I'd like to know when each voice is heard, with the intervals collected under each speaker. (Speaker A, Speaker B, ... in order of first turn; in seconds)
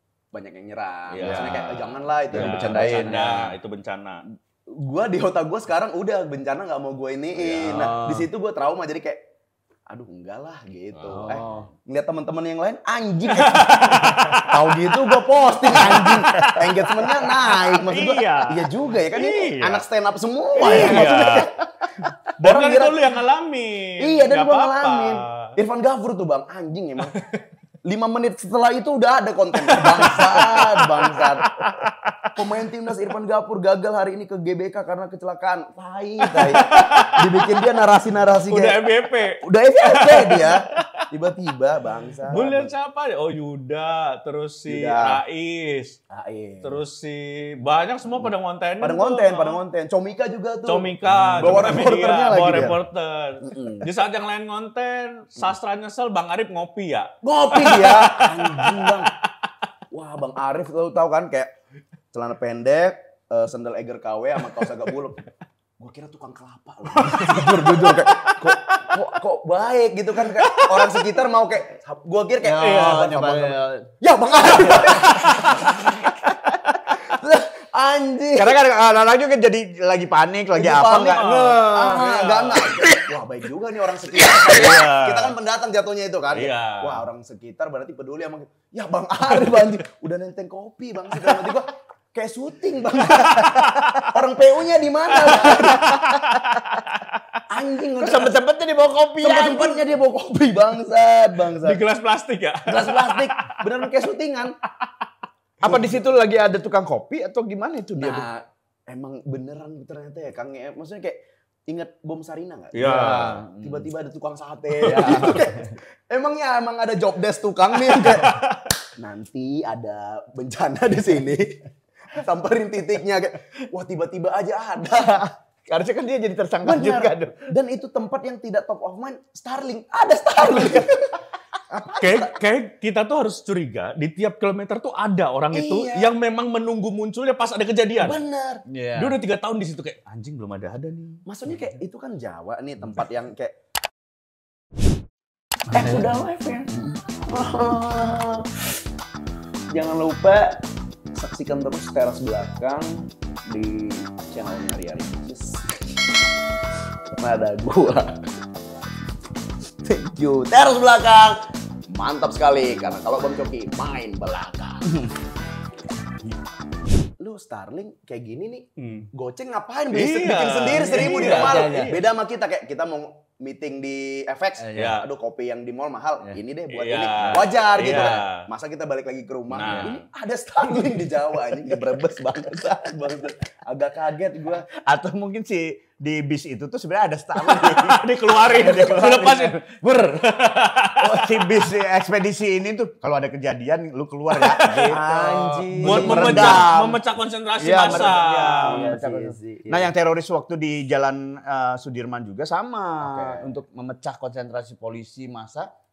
Speaker A: 0.3-3.4, 4.7-9.2, 9.9-23.1, 24.0-27.2, 27.8-31.7, 32.3-38.9, 39.4-42.7, 44.7-45.2, 46.1-46.8, 48.8-52.8, 53.4-53.9, 57.2-59.1, 59.9-61.5, 62.1-65.2, 65.8-78.6, 80.5-96.3, 97.5-98.4, 99.2-101.8, 102.7-104.5, 105.6-106.0, 108.0-121.6, 122.1-125.3, 126.6-132.3, 135.5-136.1, 138.0-138.6, 141.2-143.5, 145.7-148.6, 149.7-150.6, 151.1-155.9, 157.2-158.3, 159.8-161.4, 161.9-164.9, 167.2-184.7, 194.9-196.7, 197.8-199.9, 203.0-203.6
Speaker B: 1.1-4.2, 10.9-11.3, 13.3-19.8, 20.6-21.5, 22.4-25.5, 27.1-27.4, 29.6-32.4, 36.2-37.6, 38.5-41.0, 42.3-46.0, 46.6-49.6, 50.6-59.1, 66.9-68.9, 70.2-71.0, 72.6-73.1, 74.6-75.7, 81.0-81.6, 84.3-85.3, 86.3-87.0, 93.1-94.0, 95.2-97.4, 101.6-103.8, 112.7-113.4, 117.9-118.7, 132.0-138.2, 138.9-141.2, 168.8-169.1, 169.9-172.0, 174.7-175.0, 176.7-178.5, 179.5-180.0, 187.4-191.3, 194.3-195.0, 195.8-198.9
Speaker C: 1.2-1.7, 2.3-3.5, 7.4-8.3, 11.1-11.7, 20.7-21.2, 51.1-51.7, 52.5-52.7, 72.4-73.9, 74.8-75.5, 76.1-76.9, 78.3-83.0, 95.4-96.3, 98.0-99.8, 105.6-108.3, 112.7-113.9, 114.8-115.7, 124.9-127.5, 138.7-139.2, 170.8-172.0, 174.6-175.0, 177.1-178.2, 179.6-179.9, 184.9-189.6, 191.0-197.0, 197.6-205.7